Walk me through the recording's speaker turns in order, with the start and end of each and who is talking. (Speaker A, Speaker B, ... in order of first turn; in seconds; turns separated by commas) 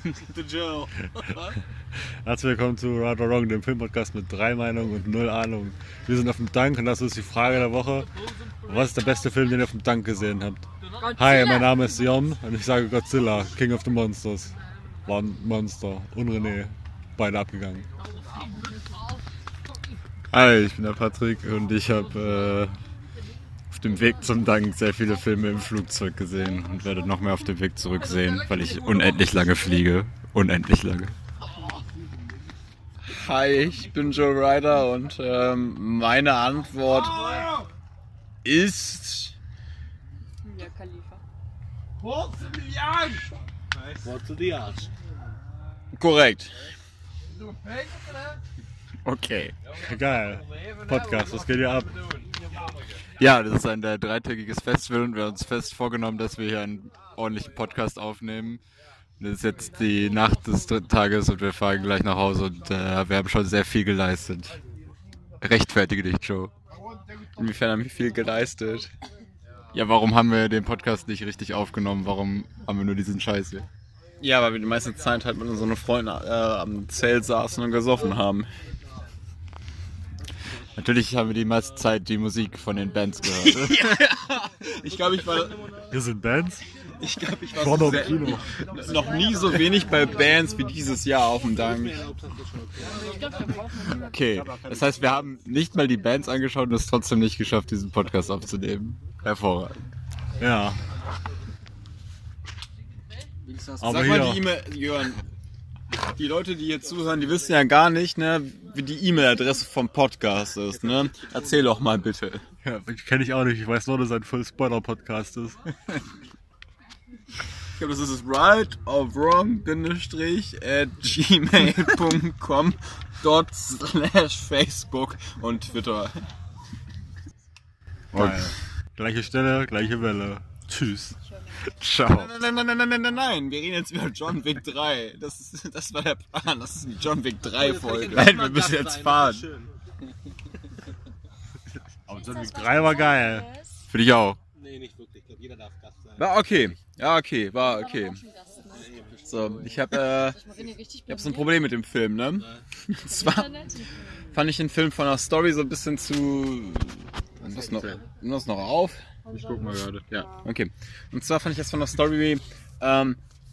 Speaker A: 0.2-1.5, Speaker B: 1.9-8.1, Speaker B: 8.6-14.5, Speaker B: 15.1-17.9, Speaker C: 20.3-22.8, Speaker C: 23.7-31.1, Speaker D: 33.0-37.5, Speaker D: 38.5-39.3, Speaker E: 40.5-41.2, Speaker A: 44.0-44.9, Speaker D: 46.0-46.5, Speaker C: 49.0-49.5, Speaker B: 49.7-51.9, Speaker C: 53.2-58.6, Speaker C: 59.2-64.6, Speaker C: 65.4-66.5, Speaker D: 67.4-68.9, Speaker C: 69.7-73.7, Speaker D: 74.2-78.5, Speaker C: 80.8-83.9, Speaker D: 83.3-85.6, Speaker B: 85.9-86.6, Speaker D: 87.0-92.0, Speaker B: 87.5-88.5, Speaker A: 91.5-93.1, Speaker E: 93.0-93.7, Speaker D: 93.9-95.2, Speaker C: 94.1-99.8, Speaker B: 94.3-95.3, Speaker B: 100.4-100.8, Speaker D: 103.5-105.2, Speaker B: 103.8-104.4, Speaker D: 106.2-112.4, Speaker B: 112.6-115.6, Speaker D: 117.8-126.2, Speaker C: 128.1-128.5, Speaker B: 128.1-131.2, Speaker C: 131.6-132.3, Speaker D: 132.1-139.5, Speaker A: 137.6-139.7, Speaker B: 142.1-143.5, Speaker E: 142.4-143.8, Speaker C: 143.9-144.4, Speaker A: 144.6-146.3, Speaker D: 146.2-148.2, Speaker E: 148.3-148.7, Speaker A: 148.7-149.5, Speaker D: 149.2-150.5, Speaker E: 150.6-151.0, Speaker D: 151.1-153.8, Speaker D: 154.3-159.1, Speaker C: 159.3-160.1, Speaker D: 160.1-163.2